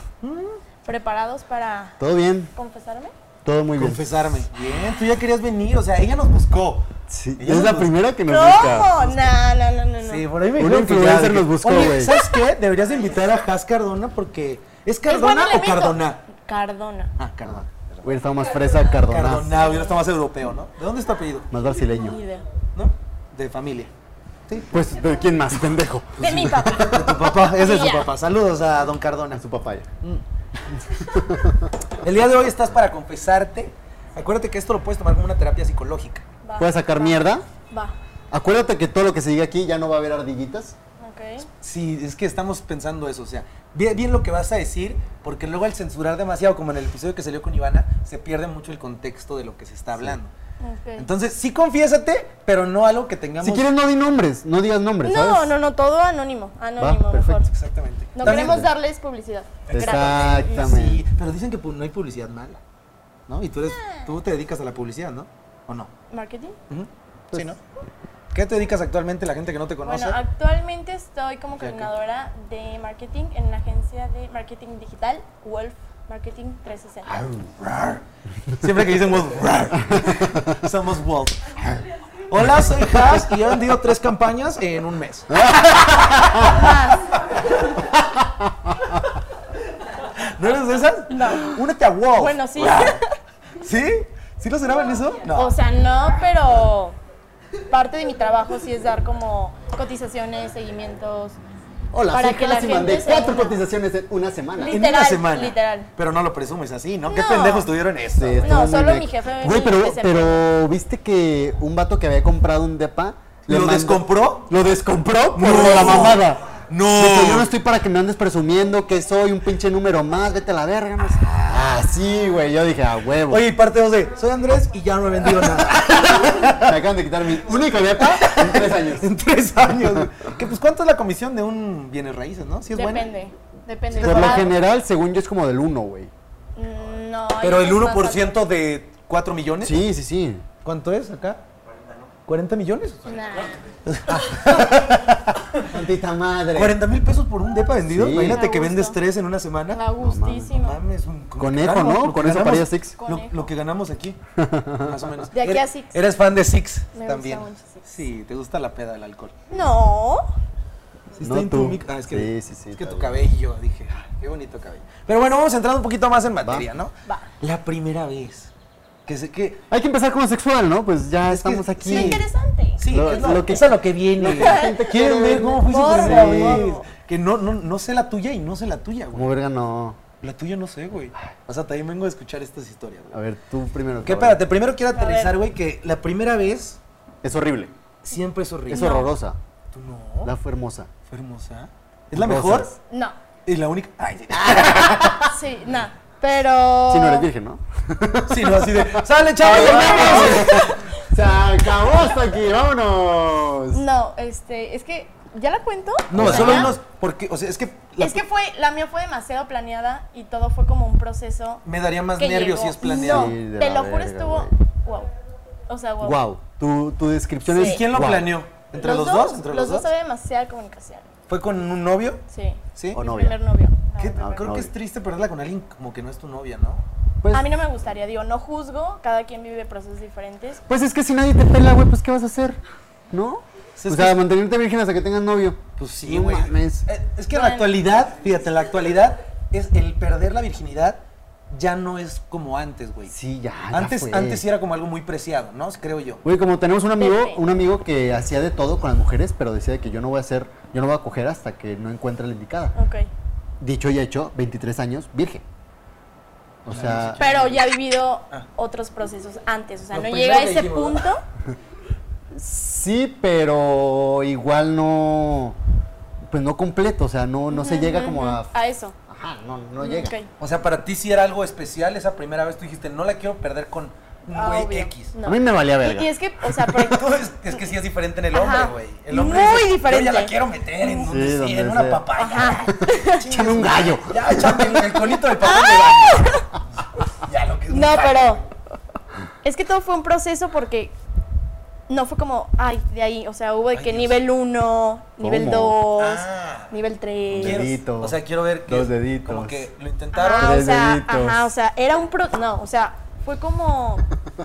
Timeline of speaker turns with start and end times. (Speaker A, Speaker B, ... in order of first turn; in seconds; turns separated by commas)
Speaker A: 0.2-0.6, Speaker B: 0.8-2.0, Speaker C: 2.0-2.5, Speaker B: 2.5-3.1, Speaker C: 3.5-4.0, Speaker A: 3.8-6.9, Speaker C: 7.1-9.0, Speaker A: 7.4-8.0, Speaker B: 8.3-10.2, Speaker A: 9.0-9.3, Speaker A: 10.0-16.3, Speaker C: 10.6-12.2, Speaker B: 15.1-17.1, Speaker A: 17.2-18.2, Speaker C: 17.5-19.6, Speaker A: 18.9-21.5, Speaker B: 19.5-20.0, Speaker C: 21.5-22.2, Speaker B: 21.7-22.4, Speaker A: 22.8-23.9, Speaker C: 24.7-27.1, Speaker B: 26.2-28.1, Speaker A: 26.9-29.4, Speaker C: 29.4-29.9, Speaker C: 30.9-31.7, Speaker A: 32.0-36.2, Speaker B: 36.4-37.2, Speaker C: 36.6-37.4, Speaker B: 37.7-38.0, Speaker C: 38.3-40.8, Speaker B: 41.0-41.5, Speaker A: 41.6-50.3, Speaker B: 50.6-51.1, Speaker A: 51.0-53.7, Speaker C: 53.4-55.5, Speaker B: 55.0-57.5, Speaker C: 56.8-57.4, Speaker A: 57.5-58.6, Speaker B: 58.2-60.7, Speaker C: 58.2-58.7, Speaker A: 59.7-62.6, Speaker C: 59.7-61.0, Speaker A: 63.3-65.9, Speaker B: 63.7-64.1, Speaker B: 66.1-66.6, Speaker A: 66.7-67.6, Speaker A: 68.3-70.2, Speaker B: 69.8-77.3, Speaker A: 71.6-71.9, Speaker A: 77.1-78.0, Speaker A: 78.6-81.6, Speaker C: 79.9-80.6, Speaker A: 82.3-86.5, Speaker C: 85.4-86.5, Speaker B: 86.4-87.2, Speaker A: 90.2-93.0, Speaker B: 91.1-91.6, Speaker B: 92.2-93.0, Speaker A: 93.6-95.5, Speaker B: 95.3-97.0, Speaker B: 97.7-101.4, Speaker C: 101.9-104.8, Speaker B: 102.1-103.6, Speaker B: 104.6-105.9, Speaker A: 104.7-108.7, Speaker B: 107.1-107.7, Speaker C: 108.2-123.5, Speaker B: 108.4-110.5, Speaker A: 113.5-114.5, Speaker A: 115.3-117.5, Speaker B: 115.5-116.2, Speaker A: 121.3-121.5, Speaker A: 123.3-126.8, Speaker C: 126.5-129.1, Speaker A: 128.0-133.1, Speaker B: 132.7-134.5, Speaker A: 133.9-134.6, Speaker C: 133.9-136.1, Speaker B: 136.6-138.4, Speaker A: 137.4-139.8, Speaker C: 139.6-140.5, Speaker A: 140.6-141.4, Speaker A: 142.3-143.1, Speaker B: 143.1-143.6, Speaker A: 143.9-145.7, Speaker C: 145.7-146.8, Speaker A: 146.5-149.8, Speaker C: 147.9-148.5, Speaker B: 148.2-149.0, Speaker B: 149.7-150.8, Speaker C: 150.0-150.5, Speaker A: 150.5-154.2, Speaker C: 151.4-152.9, Speaker B: 153.0-153.5, Speaker C: 154.4-155.3, Speaker A: 154.8-159.3, Speaker B: 155.3-156.0, Speaker B: 156.9-157.8, Speaker B: 159.5-160.3, Speaker A: 161.1-168.5, Speaker C: 161.2-163.3, Speaker C: 166.4-166.7, Speaker A: 169.1-169.6, Speaker C: 169.7-172.3, Speaker A: 171.3-172.3, Speaker B: 171.8-173.6, Speaker A: 172.8-179.3, Speaker C: 172.9-176.7, Speaker B: 174.3-174.8, Speaker B: 175.7-176.9, Speaker C: 179.1-180.0, Speaker A: 180.2-183.2, Speaker C: 183.1-184.4, Speaker A: 184.0-186.8, Speaker B: 184.9-185.4, Speaker C: 187.2-187.7, Speaker A: 188.0-188.9, Speaker C: 188.7-189.4, Speaker B: 188.7-189.1, Speaker A: 189.7-190.3, Speaker C: 190.2-190.9, Speaker A: 191.1-192.7, Speaker C: 192.1-192.8, Speaker B: 192.9-193.2, Speaker A: 193.5-195.3, Speaker B: 195.2-197.3, Speaker C: 196.9-203.8, Speaker A: 198.3-200.8, Speaker B: 199.7-200.7, Speaker B: 203.7-206.8, Speaker A: 206.1-208.2, Speaker C: 206.1-206.8, Speaker B: 208.0-211.6, Speaker A: 211.7-213.4, Speaker B: 212.2-215.1, Speaker C: 212.9-214.5, Speaker B: 215.7-216.2, Speaker C: 216.0-218.3, Speaker B: 217.5-217.8, Speaker A: 217.6-219.9, Speaker B: 218.7-221.1, Speaker A: 221.3-222.2, Speaker B: 222.3-224.4, Speaker A: 222.8-223.0, Speaker C: 222.9-223.4, Speaker A: 224.0-226.8, Speaker C: 224.2-224.7, Speaker B: 227.3-230.6, Speaker C: 230.7-232.6, Speaker C: 233.1-236.9, Speaker A: 233.8-234.2, Speaker A: 235.8-243.1, Speaker B: 237.3-237.8, Speaker C: 243.1-244.4, Speaker A: 243.7-246.2, Speaker C: 246.2-252.8, Speaker B: 247.0-247.4, Speaker B: 252.8-253.1, Speaker C: 253.6-255.4, Speaker C: 256.6-257.2, Speaker A: 256.7-257.7, Speaker B: 257.2-261.2, Speaker A: 259.9-261.1, Speaker C: 262.3-265.6, Speaker C: 266.3-268.5, Speaker B: 267.5-268.9, Speaker C: 269.1-270.1, Speaker B: 269.8-270.3, Speaker A: 270.4-275.1, Speaker B: 274.3-277.0, Speaker C: 275.2-276.1, Speaker A: 276.7-288.5, Speaker B: 278.3-281.1, Speaker C: 281.0-282.1, Speaker B: 282.2-283.2, Speaker C: 283.2-285.1, Speaker B: 285.4-286.5, Speaker B: 287.7-288.4, Speaker B: 289.4-290.9, Speaker B: 291.9-297.7, Speaker A: 293.7-294.2, Speaker C: 295.2-295.8, Speaker A: 296.0-296.8, Speaker C: 297.3-299.6, Speaker A: 297.3-300.6, Speaker B: 300.1-304.1, Speaker C: 300.3-301.5